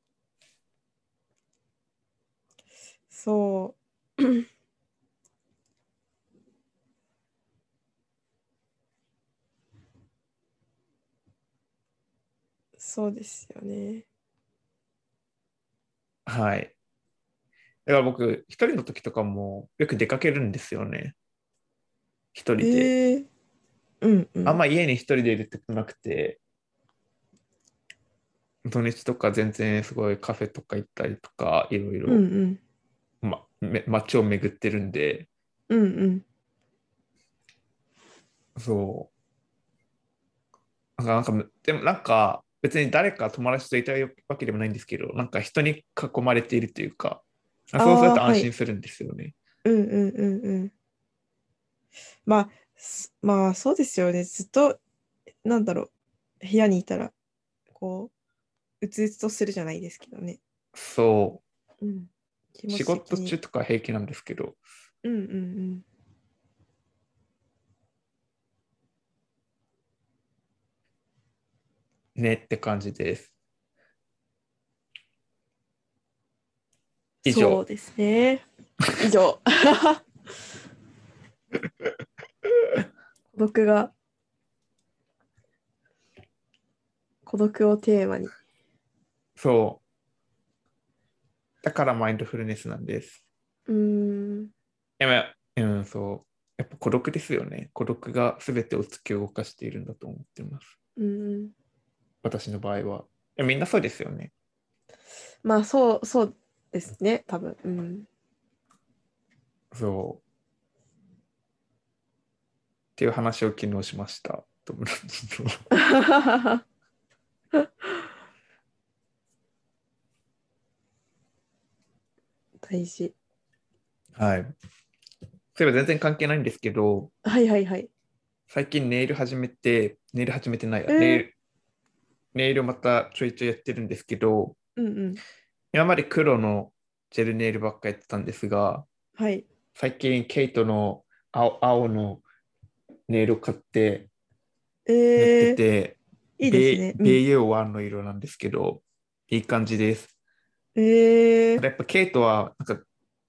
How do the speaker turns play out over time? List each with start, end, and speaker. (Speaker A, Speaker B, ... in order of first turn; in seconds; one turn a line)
Speaker A: 3.1-4.4
Speaker A: 12.8-14.1
Speaker B: 16.2-16.7
Speaker B: 17.9-21.1
Speaker B: 22.3-22.9
Speaker A: 22.6-23.3
Speaker A: 24.0-24.6
Speaker B: 24.4-26.4
Speaker B: 28.6-32.2
Speaker A: 32.0-32.6
Speaker B: 33.2-35.3
Speaker A: 35.7-36.2
Speaker B: 38.5-39.1
Speaker B: 41.0-49.3
Speaker A: 47.8-48.5
Speaker A: 49.6-50.7
Speaker A: 52.2-54.8
Speaker A: 55.4-55.9
Speaker A: 56.4-57.1
Speaker A: 57.7-58.1
Speaker A: 58.8-60.4
Speaker B: 60.7-61.4
Speaker A: 61.8-63.4
Speaker B: 62.7-64.6
Speaker A: 65.0-65.8
Speaker B: 72.2-73.3
Speaker B: 77.2-77.6
Speaker A: 77.2-78.4
Speaker A: 79.0-80.0
Speaker A: 83.3-83.9
Speaker A: 87.2-88.3
Speaker B: 89.4-89.8
Speaker B: 91.6-93.2
Speaker A: 93.7-94.5
Speaker B: 95.0-100.7
Speaker A: 101.0-101.5
Speaker B: 102.2-104.3
Speaker A: 105.4-108.1
Speaker B: 109.7-110.2
Speaker B: 113.0-115.6
Speaker A: 115.7-116.6
Speaker A: 122.6-123.1
Speaker B: 124.2-124.5
Speaker B: 125.5-127.1
Speaker A: 127.2-127.9
Speaker B: 128.5-131.3
Speaker A: 130.9-131.2
Speaker B: 132.3-134.6
Speaker A: 134.8-135.2
Speaker B: 135.7-138.8
Speaker A: 139.2-139.4
Speaker B: 139.8-142.2
Speaker B: 143.1-144.1
Speaker A: 144.9-145.6
Speaker B: 145.2-146.0
Speaker A: 146.4-147.2
Speaker B: 146.5-150.1
Speaker A: 150.8-151.6
Speaker B: 151.6-152.8